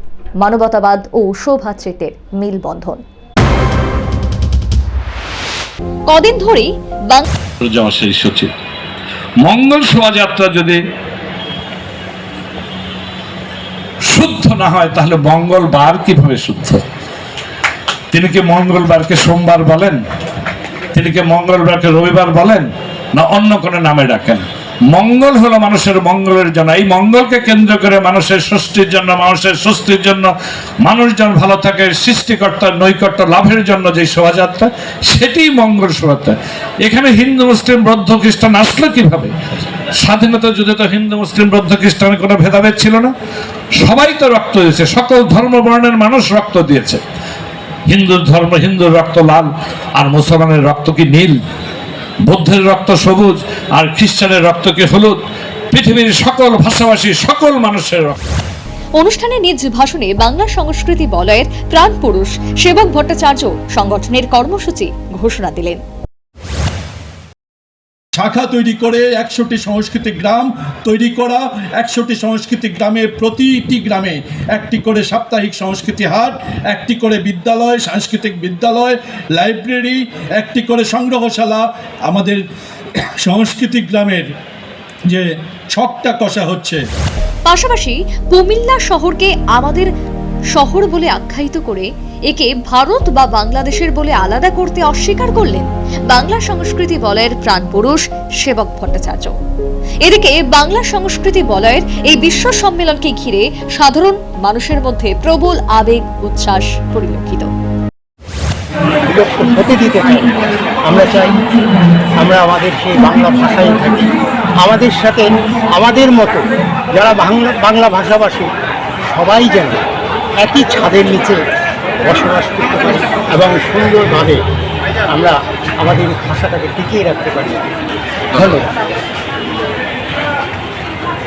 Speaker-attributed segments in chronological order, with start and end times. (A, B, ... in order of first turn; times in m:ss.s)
0:00.4-0:03.0 A
0:06.1-0:07.3 A
0:07.6-0:08.5 B
0:09.4-0:10.8 B
0:14.0-0:16.8 B
0:18.1-0:20.0 B
0:20.9-0:30.3 B
0:30.8-0:39.3 B
0:40.0-0:43.1 B
0:43.8-0:47.0 B
0:47.9-0:49.5 B
0:50.0-0:51.4 B
0:52.2-0:55.2 B
0:55.7-0:58.2 B
0:59.0-1:05.8 A
1:08.2-1:22.4 C
1:23.2-1:24.3 C
1:25.1-1:26.8 C
1:27.4-1:29.9 A
1:30.5-1:39.3 A
1:40.0-1:47.5 A
1:49.0-1:50.3 D
1:50.8-1:51.4 D
1:52.2-1:58.5 D
1:59.1-1:59.8 D
2:00.4-2:01.4 D
2:02.0-2:04.4 D
2:05.1-2:07.7 D
2:08.4-2:08.6 D